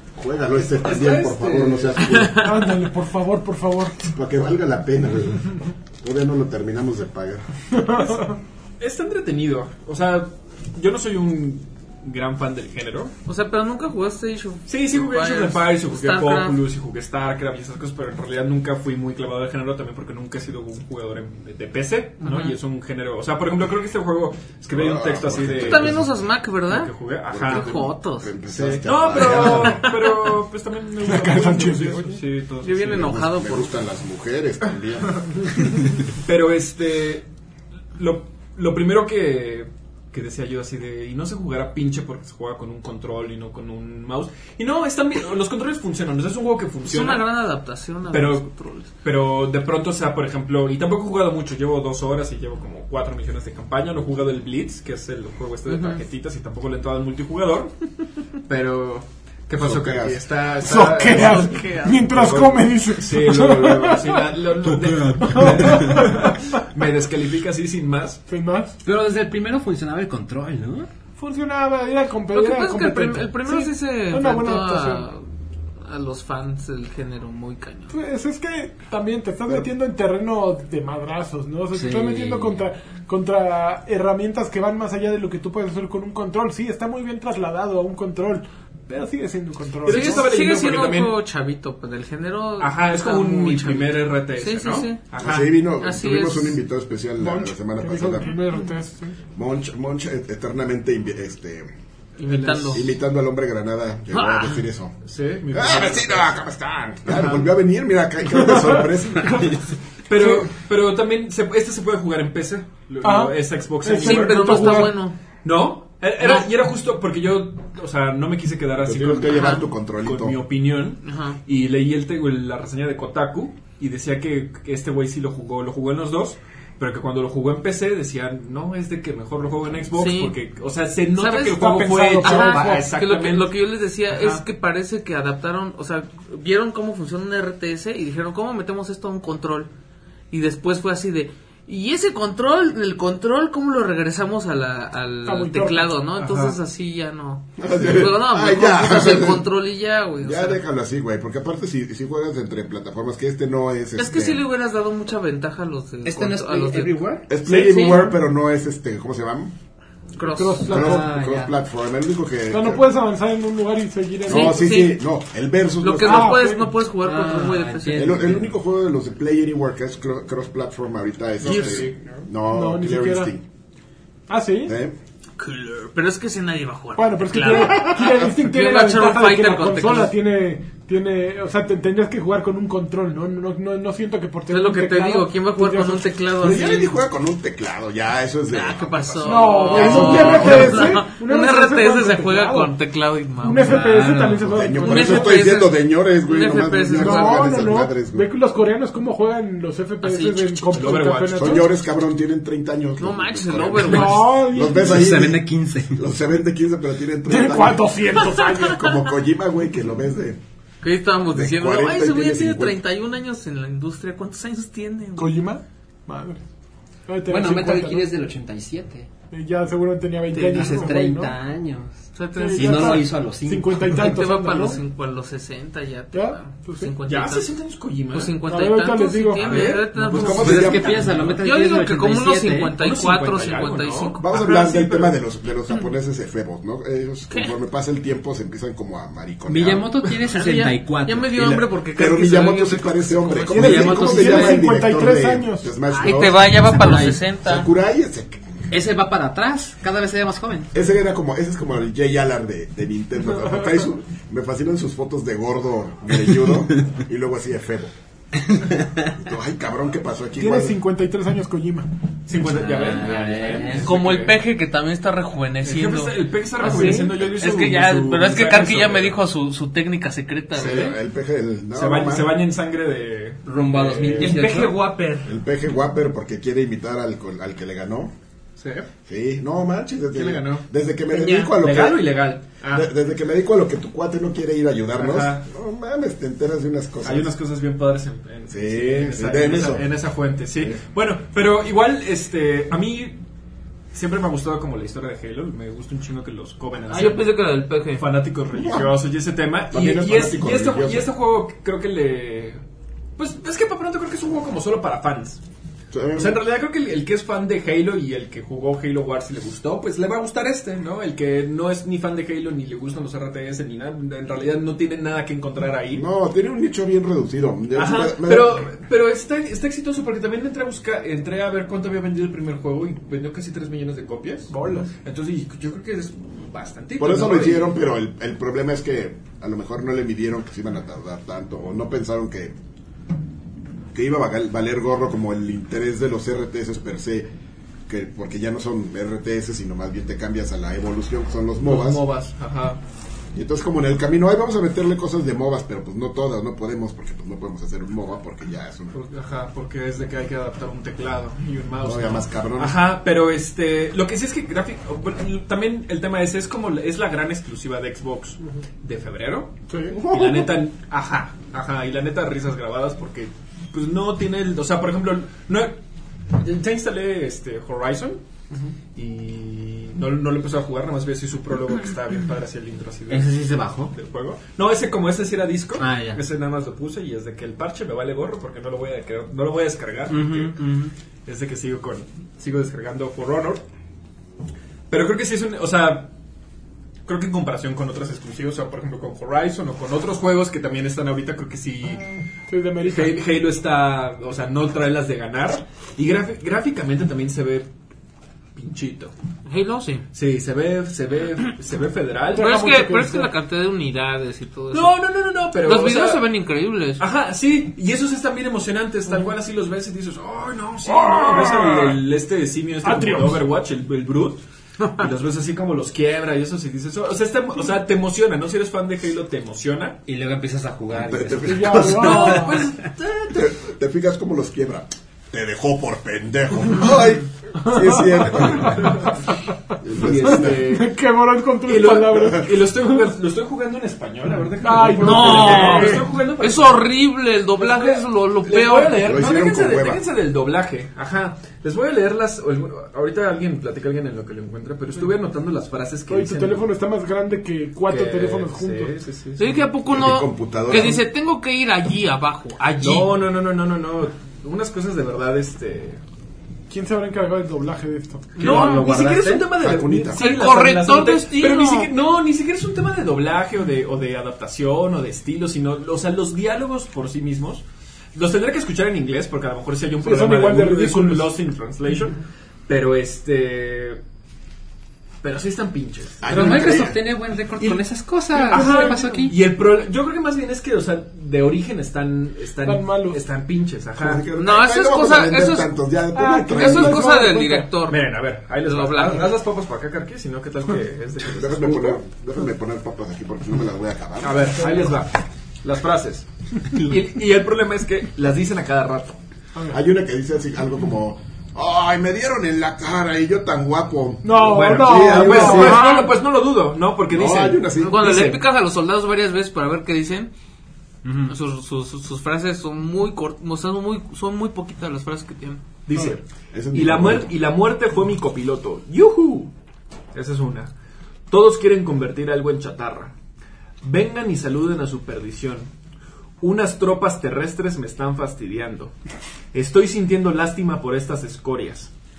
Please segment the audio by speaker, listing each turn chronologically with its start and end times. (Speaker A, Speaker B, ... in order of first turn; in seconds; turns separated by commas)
Speaker A: 0.2-2.4, Speaker B: 0.7-2.3, Speaker C: 1.9-2.7, Speaker D: 2.3-4.0, Speaker A: 4.1-7.5, Speaker D: 7.7-8.4, Speaker B: 8.8-13.1, Speaker C: 13.3-16.6, Speaker B: 14.7-26.1, Speaker C: 22.2-22.6, Speaker A: 24.7-26.1, Speaker C: 25.6-28.4, Speaker B: 26.7-27.9, Speaker A: 27.3-29.9, Speaker B: 28.5-33.2, Speaker C: 28.9-30.5, Speaker D: 31.0-32.2, Speaker C: 32.6-33.8, Speaker A: 32.9-35.5, Speaker B: 36.2-37.3, Speaker B: 38.0-47.3, Speaker C: 46.9-48.9, Speaker B: 48.1-48.5, Speaker B: 49.0-57.7, Speaker C: 55.7-56.0, Speaker B: 58.5-68.2, Speaker A: 59.6-60.2, Speaker D: 60.6-64.2, Speaker C: 61.1-62.0, Speaker D: 65.1-66.4, Speaker D: 68.3-68.8, Speaker E: 68.8-70.9, Speaker D: 71.2-75.1, Speaker C: 72.3-75.2, Speaker C: 75.8-77.9, Speaker D: 77.9-90.3, Speaker E: 81.7-82.5, Speaker B: 89.8-91.2, Speaker C: 89.9-95.0, Speaker B: 92.6-95.7, Speaker A: 95.2-98.3, Speaker C: 95.8-96.6, Speaker D: 97.2-99.2, Speaker A: 99.3-101.7, Speaker C: 102.2-102.9, Speaker B: 102.2-102.9, Speaker A: 102.7-105.0, Speaker C: 104.1-104.6, Speaker B: 105.0-106.3, Speaker A: 105.5-109.6, Speaker B: 107.1-107.4, Speaker B: 110.1-114.9, Speaker D: 113.0-115.0, Speaker C: 114.0-115.2, Speaker B: 115.4-133.5, Speaker A: 118.8-120.4, Speaker C: 119.3-119.7, Speaker C: 121.0-121.4, Speaker C: 130.0-130.4, Speaker C: 131.2-139.7, Speaker D: 131.5-132.9, Speaker B: 134.1-134.4, Speaker C: 140.3-150.6, Speaker D: 145.2-145.9, Speaker B: 146.2-146.6, Speaker A: 147.6-149.5, Speaker A: 150.2-154.4, Speaker C: 154.0-158.1, Speaker E: 156.1-157.3, Speaker A: 157.3-159.6, Speaker B: 157.5-158.1, Speaker C: 160.2-160.7, Speaker D: 160.2-161.1, Speaker E: 160.7-161.5, Speaker A: 160.7-162.9, Speaker D: 162.5-164.7, Speaker C: 164.3-165.1, Speaker A: 164.3-166.4, Speaker C: 165.8-168.3, Speaker D: 166.0-166.8, Speaker E: 166.9-168.5, Speaker A: 167.9-173.4, Speaker B: 171.4-172.3, Speaker C: 171.5-171.8, Speaker D: 172.5-173.3, Speaker D: 174.3-174.7, Speaker A: 174.7-175.0, Speaker C: 175.4-180.2, Speaker D: 177.0-186.1, Speaker C: 184.5-187.0, Speaker A: 186.4-191.0, Speaker C: 188.5-194.0, Speaker D: 189.2-192.7, Speaker D: 193.4-195.4, Speaker E: 193.6-194.6, Speaker A: 194.4-198.3, Speaker C: 194.8-197.6, Speaker D: 196.9-201.7, Speaker C: 200.0-200.6, Speaker B: 200.7-201.7, Speaker A: 201.4-210.4, Speaker C: 203.0-204.5, Speaker D: 203.8-205.1, Speaker E: 204.6-206.1, Speaker D: 207.3-208.9, Speaker C: 210.8-215.4, Speaker A: 211.3-212.8, Speaker D: 215.2-216.4, Speaker D: 217.1-218.1, Speaker E: 217.3-219.1, Speaker D: 219.3-221.3, Speaker C: 220.3-220.9, Speaker E: 220.4-224.0, Speaker C: 222.2-223.1, Speaker D: 222.4-224.8, Speaker C: 223.9-227.5, Speaker D: 226.1-226.9, Speaker B: 227.0-228.4, Speaker C: 228.1-234.2, Speaker D: 228.5-229.7, Speaker B: 229.4-231.4, Speaker A: 230.1-231.3, Speaker E: 230.1-232.8, Speaker B: 232.8-235.2, Speaker A: 234.2-239.9, Speaker E: 239.5-241.3, Speaker C: 240.2-244.2, Speaker A: 241.3-246.6, Speaker E: 243.5-244.7, Speaker D: 243.5-245.7, Speaker C: 245.9-247.7, Speaker E: 246.6-247.2, Speaker A: 247.4-248.5, Speaker E: 248.7-250.7, Speaker A: 250.7-257.9, Speaker A: 259.1-260.8, Speaker D: 260.4-261.9, Speaker B: 262.3-264.4, Speaker E: 262.4-263.9, Speaker C: 263.8-271.0, Speaker B: 265.6-269.2, Speaker A: 270.5-272.4, Speaker B: 270.6-270.9, Speaker B: 271.7-274.6, Speaker E: 273.4-274.8, Speaker C: 274.2-275.4, Speaker A: 275.2-278.1, Speaker B: 278.6-278.9, Speaker A: 279.1-287.3, Speaker B: 280.1-282.9, Speaker B: 284.9-285.5, Speaker B: 287.0-293.2, Speaker A: 288.5-289.9, Speaker B: 293.9-302.6, Speaker C: 296.9-298.1, Speaker A: 298.6-298.9, Speaker A: 299.7-301.1, Speaker B: 303.2-305.4, Speaker A: 305.9-306.4, Speaker B: 306.1-316.0, Speaker A: 315.9-318.6, Speaker B: 317.7-327.8, Speaker D: 324.5-324.9, Speaker A: 327.0-332.6, Speaker A: 333.9-337.3, Speaker A: 337.9-342.0, Speaker B: 341.6-342.8, Speaker A: 343.3-349.0, Speaker B: 348.9-365.8, Speaker A: 351.8-352.8, Speaker D: 359.7-360.0, Speaker A: 359.9-360.5, Speaker B: 366.3-368.2, Speaker B: 369.0-380.6, Speaker E: 373.1-373.9, Speaker E: 375.8-376.2, Speaker E: 380.1-380.9, Speaker B: 381.3-383.7, Speaker B: 384.9-386.1, Speaker B: 387.1-392.1, Speaker D: 392.5-393.2, Speaker B: 392.8-397.7, Speaker B: 398.6-399.1, Speaker C: 399.5-400.1, Speaker B: 400.1-402.6, Speaker D: 402.3-403.3, Speaker C: 402.4-405.0, Speaker B: 404.7-406.3, Speaker C: 405.5-407.0, Speaker B: 407.0-420.0, Speaker D: 410.9-412.0, Speaker D: 412.8-413.4, Speaker E: 420.1-422.7, Speaker A: 420.9-422.5, Speaker D: 421.4-422.6, Speaker C: 422.0-422.8, Speaker B: 422.1-423.4, Speaker A: 423.3-429.1, Speaker D: 427.6-429.1, Speaker B: 428.6-429.2, Speaker A: 429.8-430.6, Speaker B: 429.9-430.9, Speaker D: 430.5-432.5, Speaker B: 431.6-436.8, Speaker D: 434.6-436.0, Speaker C: 435.0-439.2, Speaker B: 437.6-446.7, Speaker A: 438.8-440.0, Speaker D: 446.1-448.9, Speaker B: 447.9-449.7, Speaker C: 449.4-453.2, Speaker A: 449.9-451.1, Speaker B: 452.8-456.0, Speaker D: 456.7-458.4, Speaker C: 458.4-458.9, Speaker E: 458.4-459.5, Speaker B: 458.4-467.6, Speaker A: 459.6-460.2, Speaker C: 460.1-461.9, Speaker B: 468.1-474.0, Speaker D: 470.0-471.3, Speaker B: 475.2-477.0, Speaker A: 476.2-477.0, Speaker E: 476.3-479.4, Speaker B: 477.6-477.9, Speaker D: 478.3-479.1, Speaker B: 478.5-484.2, Speaker D: 482.6-483.2, Speaker A: 484.0-487.2, Speaker C: 484.3-485.7, Speaker D: 486.1-487.7, Speaker C: 486.5-488.1, Speaker B: 487.9-492.0, Speaker C: 488.6-489.4, Speaker A: 491.3-494.6, Speaker B: 494.2-499.2, Speaker A: 499.7-505.9, Speaker D: 504.2-506.1, Speaker B: 504.4-508.4, Speaker C: 505.6-506.1, Speaker A: 507.1-508.0, Speaker C: 507.8-510.3, Speaker E: 511.1-511.3, Speaker C: 511.3-515.6, Speaker B: 515.9-519.5, Speaker A: 516.0-517.3, Speaker B: 520.1-520.7, Speaker B: 521.3-523.1, Speaker B: 523.8-525.7, Speaker B: 526.4-528.9, Speaker B: 529.5-531.9